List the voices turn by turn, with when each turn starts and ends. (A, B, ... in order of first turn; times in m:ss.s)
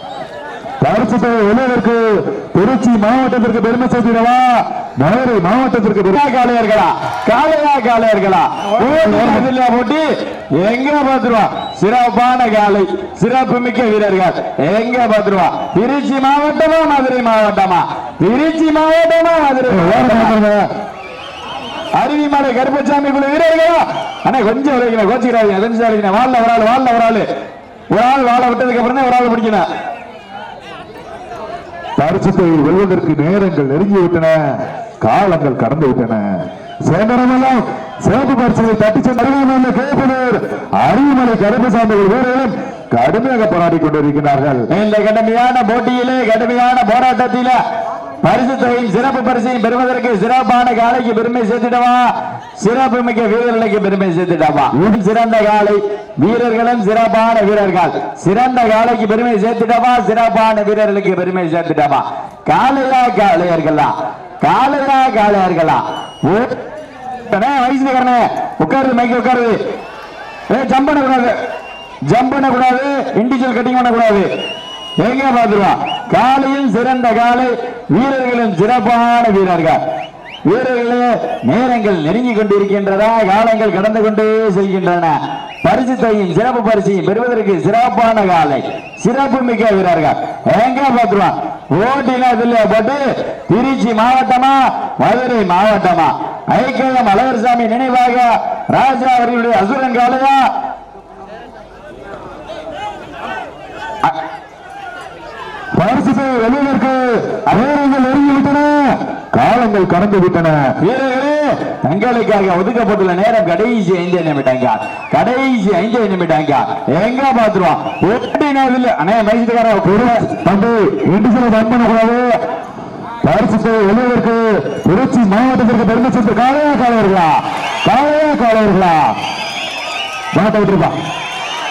0:00.8-0:06.2 A
0:06.1-0:10.0 B
0:08.8-0:09.5 A
0:10.6-0:20.4 B
0:19.7-0:20.7 A
0:22.0-0:27.2 B
0:27.9-0:29.6 B
0:32.0-0:34.4 A
0:35.0-0:36.3 A
0:36.8-0:44.6 A
0:44.7-0:47.6 B
0:48.2-1:06.6 B
1:07.2-1:09.6 B
1:10.5-1:11.4 B
1:12.1-1:14.3 B
1:15.0-1:19.8 B
1:20.5-1:40.4 B
1:45.8-1:50.6 A
1:50.8-2:00.3 B
1:59.8-2:02.3 A
2:03.2-2:09.1 A
2:10.3-2:11.0 A